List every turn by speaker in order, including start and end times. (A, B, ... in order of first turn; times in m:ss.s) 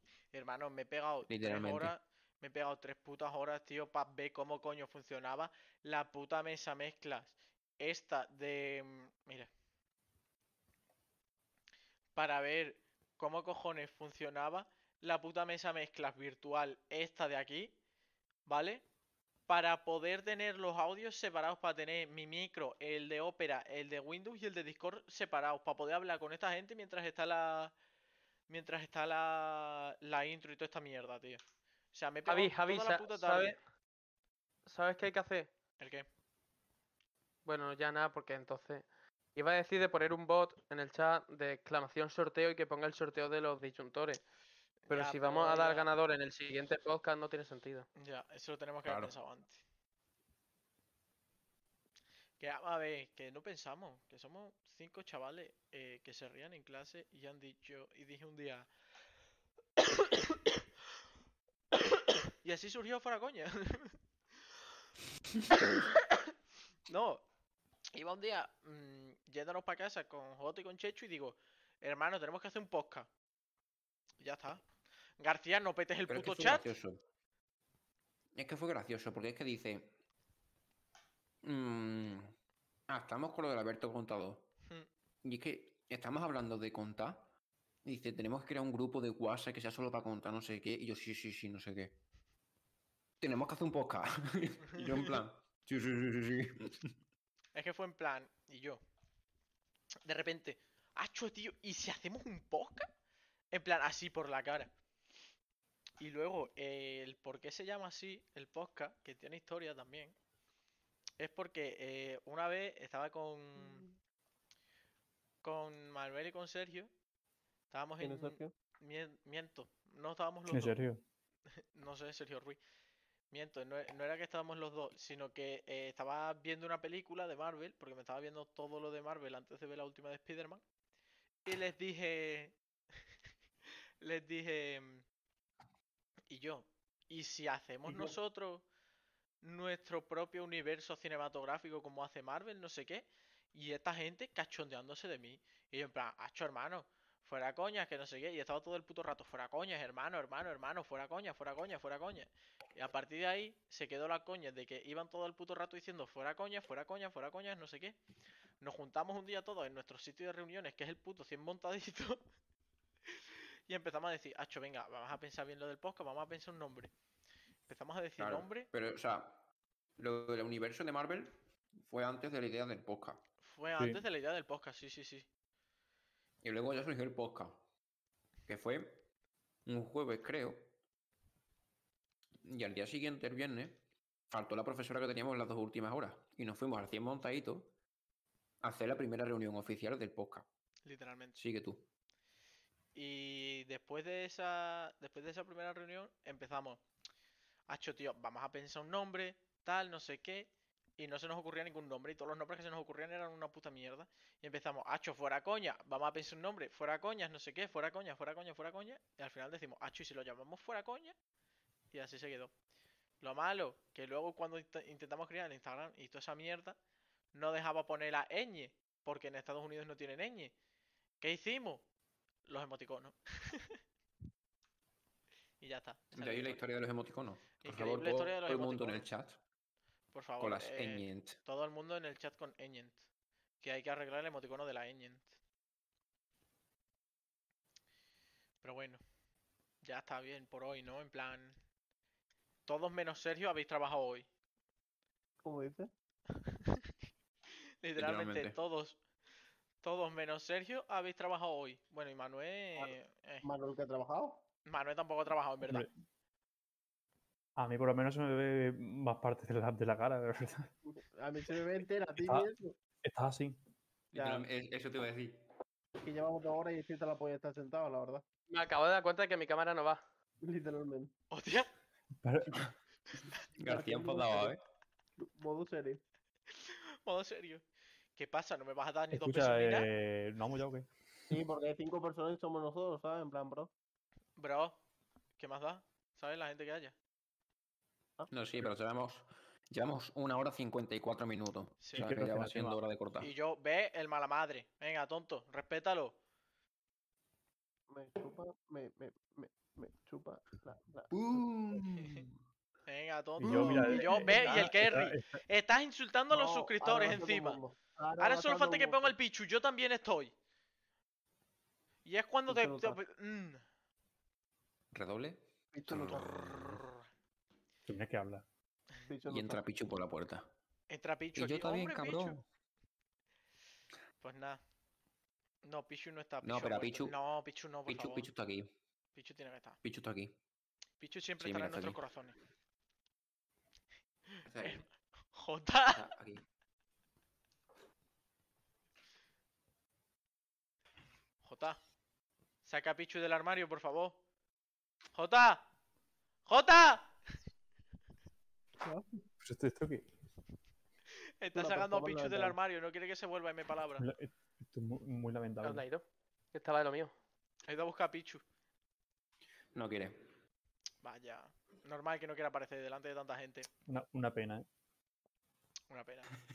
0:00.3-0:09.5 A
0:01.3-0:01.9 B
0:12.1-0:17.7 A
0:18.5-0:18.8 A
0:19.5-0:27.7 A
0:28.5-0:31.4 A
0:31.9-0:33.6 A
0:32.2-0:33.6 C
0:34.7-0:35.5 C
0:35.8-0:36.0 A
0:37.4-0:38.8 C
0:39.4-0:44.2 C
0:44.9-0:45.9 A
0:44.9-0:47.9 C
0:48.0-0:49.6 A
0:48.8-0:49.1 B
0:52.4-0:58.7 A
1:02.4-1:04.0 A
1:06.9-1:07.2 A
1:07.9-1:13.1 A
1:14.2-1:14.6 A
1:15.2-1:16.7 A
1:16.1-1:17.0 B
1:18.3-1:20.0 B
1:21.4-1:22.3 B
1:22.9-1:24.5 B
1:25.2-1:27.3 B
1:27.8-1:32.0 B
1:33.2-1:36.9 B
1:34.8-1:35.2 A
1:37.5-1:38.8 A
1:40.0-1:42.9 A
1:43.5-1:44.7 A
1:46.0-1:50.2 A
1:51.2-1:53.9 A
1:55.4-1:56.9 A
1:57.7-2:00.8 A
1:58.0-1:58.5 D
2:00.5-2:01.0 E
2:01.7-2:02.6 A
2:03.3-2:10.6 A
2:11.4-2:12.6 A
2:14.0-2:15.0 A
2:16.3-2:18.6 A
2:19.4-2:38.0 A
2:38.6-2:42.2 A
2:43.7-2:46.9 A
2:47.7-2:48.7 A
2:48.2-2:49.4 B
2:50.0-2:53.2 B
2:53.4-2:55.3 A
2:53.8-2:54.0 E
2:56.4-2:57.6 B
2:58.5-2:59.0 B
2:59.6-3:00.7 B
3:02.4-3:07.7 B
3:08.6-3:10.5 B
3:10.8-3:11.4 A
3:11.3-3:11.8 B
3:12.9-3:16.8 A
3:17.7-3:31.1 A
3:31.9-3:32.5 A
3:33.2-3:36.8 A
3:37.3-3:40.5 A
3:41.2-3:41.8 A
3:42.4-3:43.8 A
3:45.6-3:46.6 A
3:46.1-3:49.4 B
3:47.6-3:49.1 A
3:50.1-3:53.0 A
3:50.4-3:51.4 B
3:53.6-3:55.3 A
3:58.6-3:59.0 A
3:59.8-4:01.5 A
4:02.6-4:04.3 A
4:05.4-4:05.9 D
4:07.8-4:09.0 A
4:08.0-4:08.6 B
4:09.8-4:13.4 A
4:13.4-4:14.4 D
4:14.6-4:15.8 A
4:15.6-4:15.9 E
4:17.6-4:20.7 E
4:20.8-4:22.7 D
4:22.2-4:22.5 E
4:23.0-4:23.6 E
4:24.1-4:25.4 B
4:24.1-4:24.5 D
4:26.0-4:28.2 D
4:28.5-4:30.0 C
4:30.4-4:31.1 D
4:31.3-4:31.7 A
4:32.2-4:32.6 E
4:33.6-4:34.5 D
4:33.6-4:34.6 B
4:35.2-4:36.0 D
4:36.5-4:37.6 A
4:38.2-4:39.9 A
4:39.1-4:40.9 E
4:41.3-4:43.7 D
4:44.4-4:44.8 A
4:45.4-4:46.9 A
4:48.3-4:53.3 B
4:51.8-4:52.1 A
4:51.9-4:52.8 E
4:53.2-4:56.2 A
4:57.9-5:01.4 D
5:01.1-5:02.3 B
5:02.9-5:07.6 A
5:03.4-5:05.4 E
5:03.4-5:04.4 D
5:06.3-5:09.1 D
5:08.2-5:10.3 A
5:12.0-5:13.6 A
5:12.5-5:13.0 D
5:14.9-5:16.4 B
5:15.7-5:16.3 D
5:16.3-5:17.0 A
5:17.8-5:18.4 E
5:19.0-5:19.6 D
5:19.3-5:20.5 B
5:20.9-5:22.4 A
5:21.4-5:22.4 B
5:24.2-5:24.6 A
5:25.6-5:28.3 A
5:26.4-5:27.1 B
5:27.9-5:28.7 B
5:29.1-5:29.8 A
5:29.8-5:30.4 B
5:31.0-5:32.3 A
5:31.4-5:32.0 B
5:34.4-5:34.8 A
5:34.4-5:34.8 B
5:35.3-5:36.0 A
5:35.9-5:36.4 B
5:41.4-5:41.8 A
5:42.6-5:44.2 A
5:45.1-5:45.6 A
5:46.4-5:47.1 A
5:48.8-5:49.2 D
5:49.4-5:50.1 E
5:51.4-5:54.0 A
5:51.5-5:52.6 D
5:54.0-5:55.8 E
5:55.6-5:57.1 C
5:57.6-5:58.4 A
5:59.7-6:00.3 B
6:01.0-6:03.7 A
6:03.8-6:04.6 E
6:05.9-6:06.3 A